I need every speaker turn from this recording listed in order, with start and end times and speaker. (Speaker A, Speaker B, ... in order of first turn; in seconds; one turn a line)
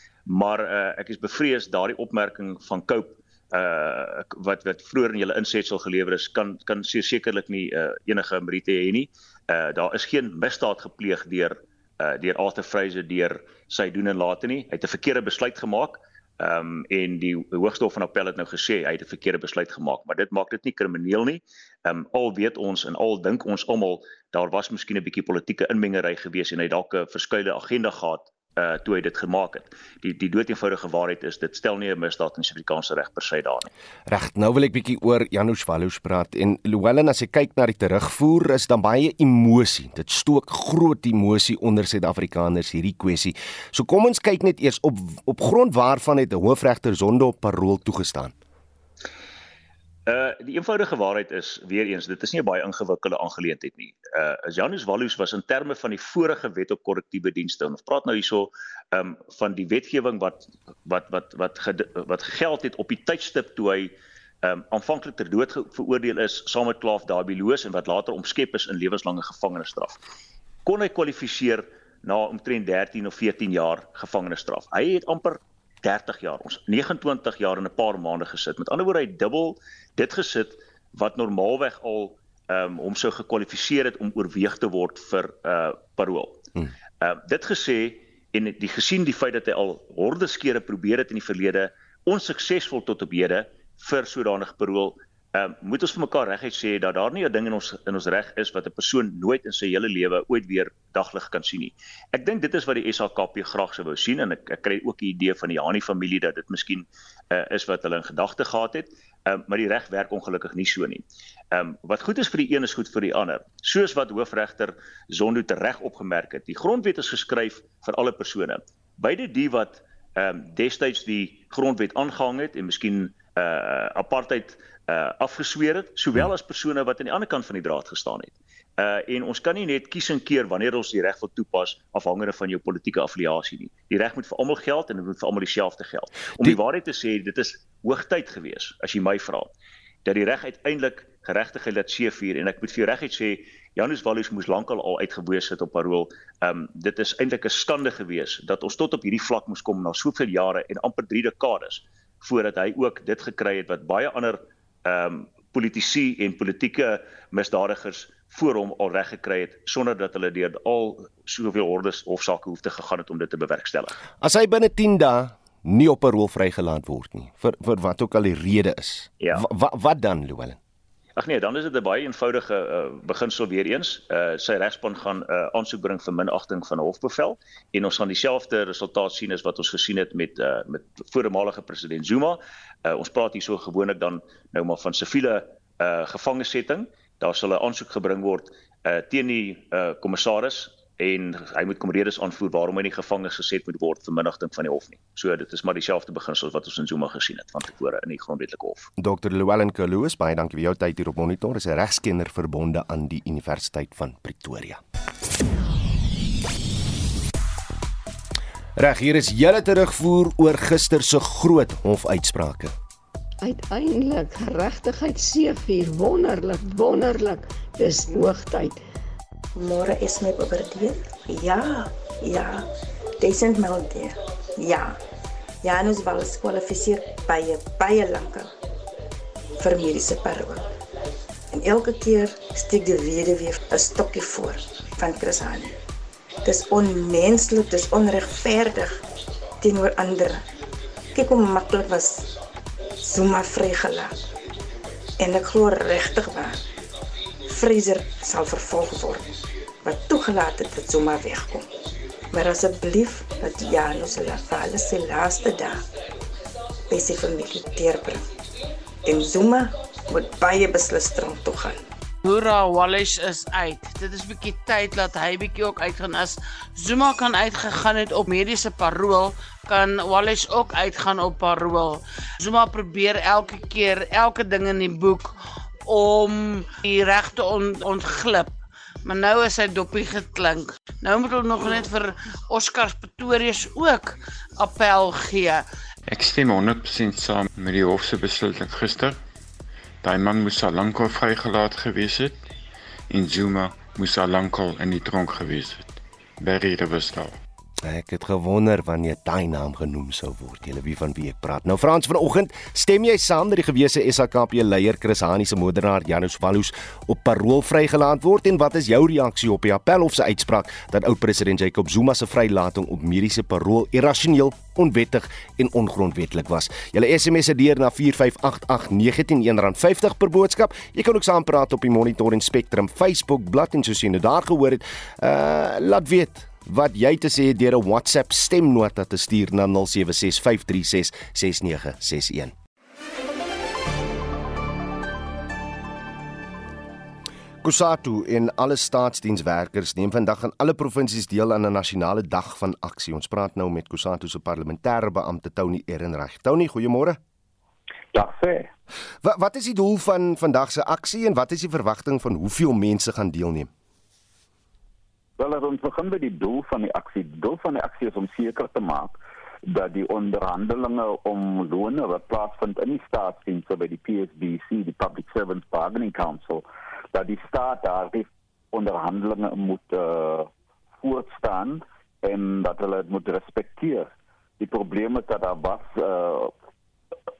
Speaker A: 0.3-33.7
Speaker B: 34.1-48.4
Speaker A: 50.1-63.9
Speaker A: 64.4-70.0
Speaker A: 70.7-86.5
Speaker A: 87.0-139.5
Speaker A: 140.1-164.0
Speaker B: 164.2-170.6
Speaker A: 171.2-198.9
Speaker B: 199.0-204.8
Speaker B: 208.8-212.7
Speaker C: 213.4-218.8
Speaker D: 219.6-222.7
Speaker D: 223.2-225.0
Speaker D: 225.6-228.5
Speaker D: 229.6-230.7
Speaker D: 231.5-235.7
Speaker D: 236.4-239.0
Speaker D: 239.6-240.4
Speaker D: 241.1-242.3
Speaker D: 243.0-244.2
Speaker D: 245.2-246.6
Speaker D: 247.5-249.3
Speaker D: 249.8-251.7
Speaker D: 252.3-255.8
Speaker D: 256.9-258.3
Speaker D: 259.1-261.8
Speaker E: 262.2-275.3
Speaker E: 275.9-285.6
Speaker F: 286.1-289.2
Speaker F: 290.0-292.4
Speaker F: 293.1-297.4
Speaker B: 297.8-332.5
Speaker B: 337.6-347.2
Speaker G: 348.1-348.7
Speaker B: 349.2-353.7
Speaker G: 355.4-359.2
Speaker G: 359.7-370.5
Speaker G: 371.0-374.1
Speaker G: 374.6-376.5